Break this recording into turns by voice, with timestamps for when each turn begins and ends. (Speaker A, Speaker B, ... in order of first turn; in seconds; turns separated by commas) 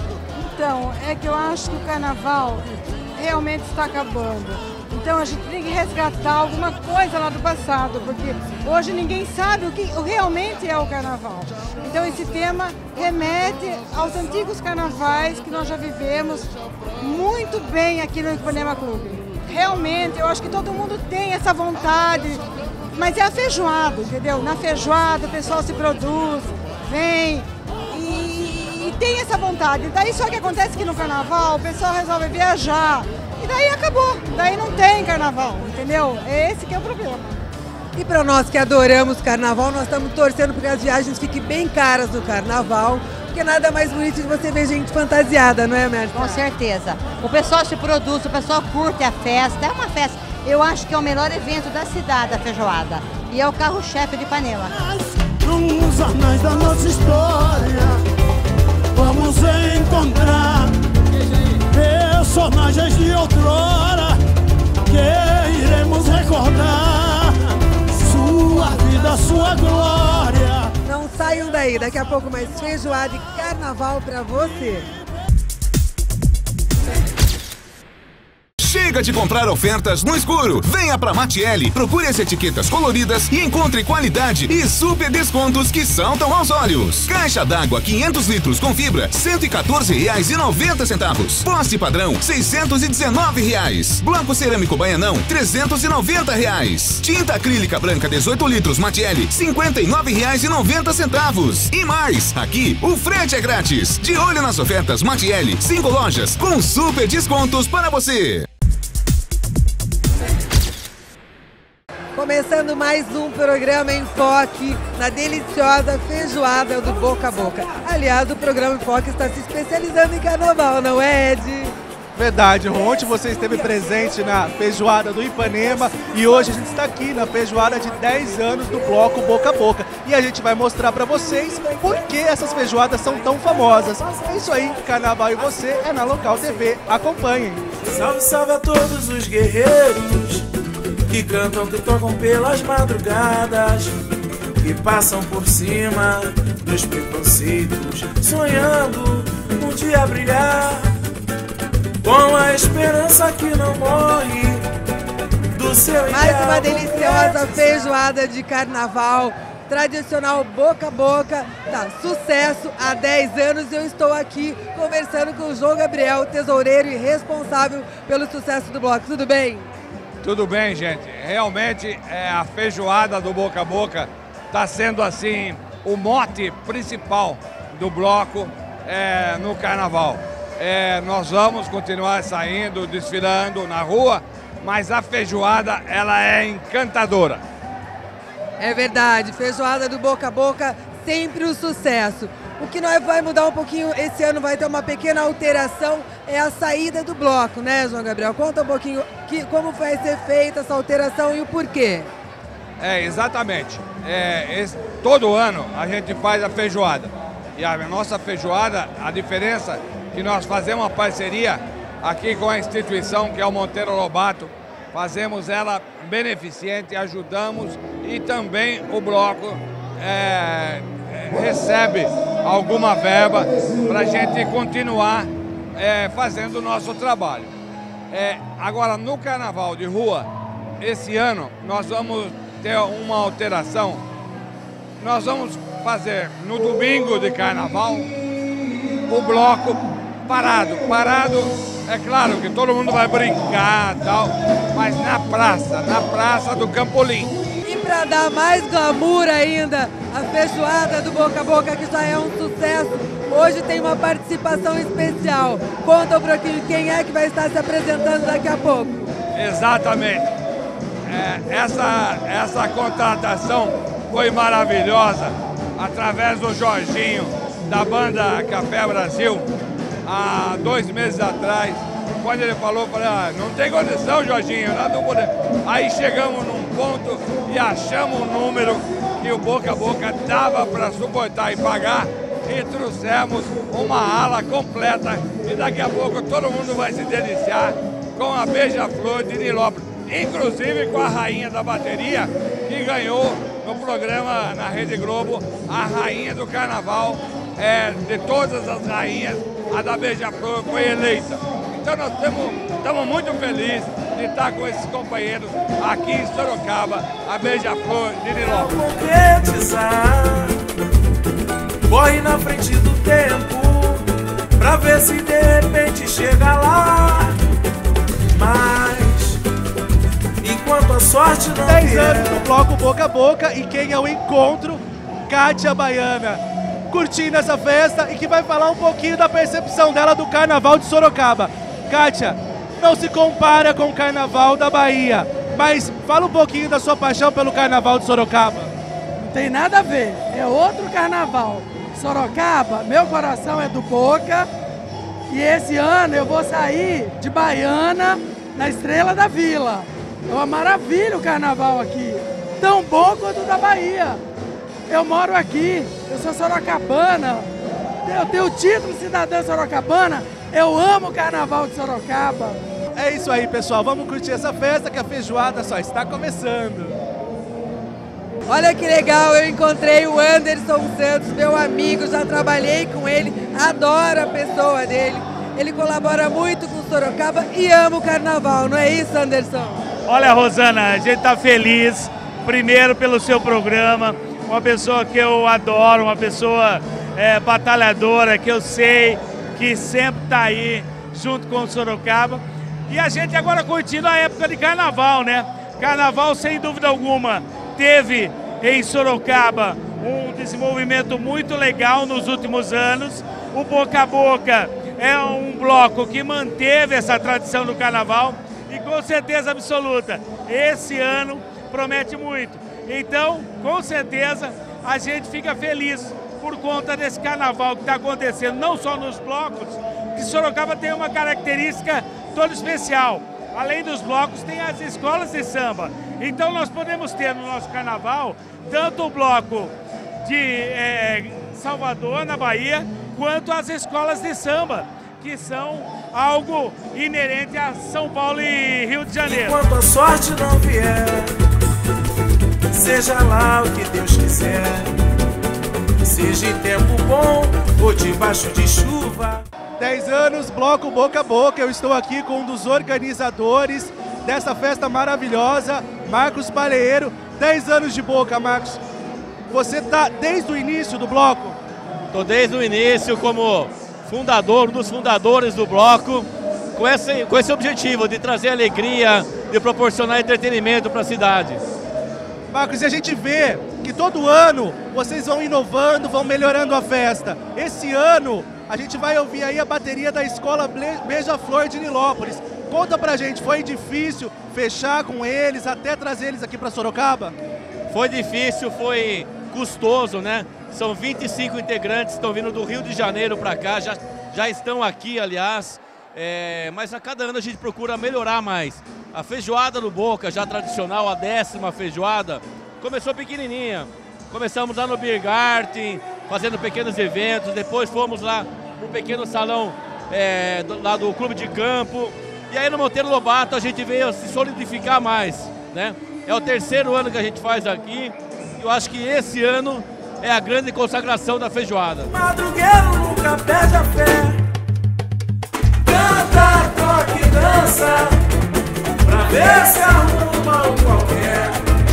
Speaker A: 0.4-22.4, Speaker A: 22.9-37.4, Speaker B: 38.0-46.5, Speaker C: 46.1-54.7, Speaker D: 54.8-58.0, Speaker D: 58.9-60.8, Speaker D: 61.7-64.2, Speaker D: 64.9-70.7, Speaker B: 70.8-74.9, Speaker E: 78.6-108.5, Speaker B: 112.2-121.8, Speaker F: 122.2-137.6, Speaker G: 137.8-140.5, Speaker G: 141.1-144.0, Speaker G: 144.6-150.9, Speaker G: 152.0-154.7, Speaker G: 155.5-157.7, Speaker B: 156.1-169.7, Speaker H: 170.2-187.4, Speaker B: 188.6-202.1, Speaker H: 202.8-227.5, Speaker H: 228.1-234.1, Speaker H: 235.0-238.1, Speaker H: 239.1-247.3, Speaker B: 247.6-259.1, Speaker H: 259.3-260.3, Speaker H: 261.1-269.5, Speaker H: 270.1-308.7, Speaker G: 308.4-310.6, Speaker G: 311.9-314.1, Speaker G: 314.6-317.4, Speaker G: 318.3-319.4, Speaker G: 320.4-322.5, Speaker F: 321.6-338.7, Speaker I: 339.2-344.5, Speaker I: 345.3-354.2, Speaker I: 354.9-357.5, Speaker I: 358.1-362.6, Speaker F: 362.9-367.0, Speaker B: 368.5-379.9, Speaker J: 380.1-429.7, Speaker J: 430.2-439.6, Speaker G: 439.2-441.4, Speaker G: 442.7-444.9, Speaker G: 446.0-449.4, Speaker F: 449.8-458.8, Speaker F: 459.5-461.6, Speaker K: 462.1-471.7, Speaker F: 472.5-487.4, Speaker K: 487.9-522.1, Speaker G: 522.1-524.4, Speaker G: 525.8-528.2, Speaker G: 529.0-531.6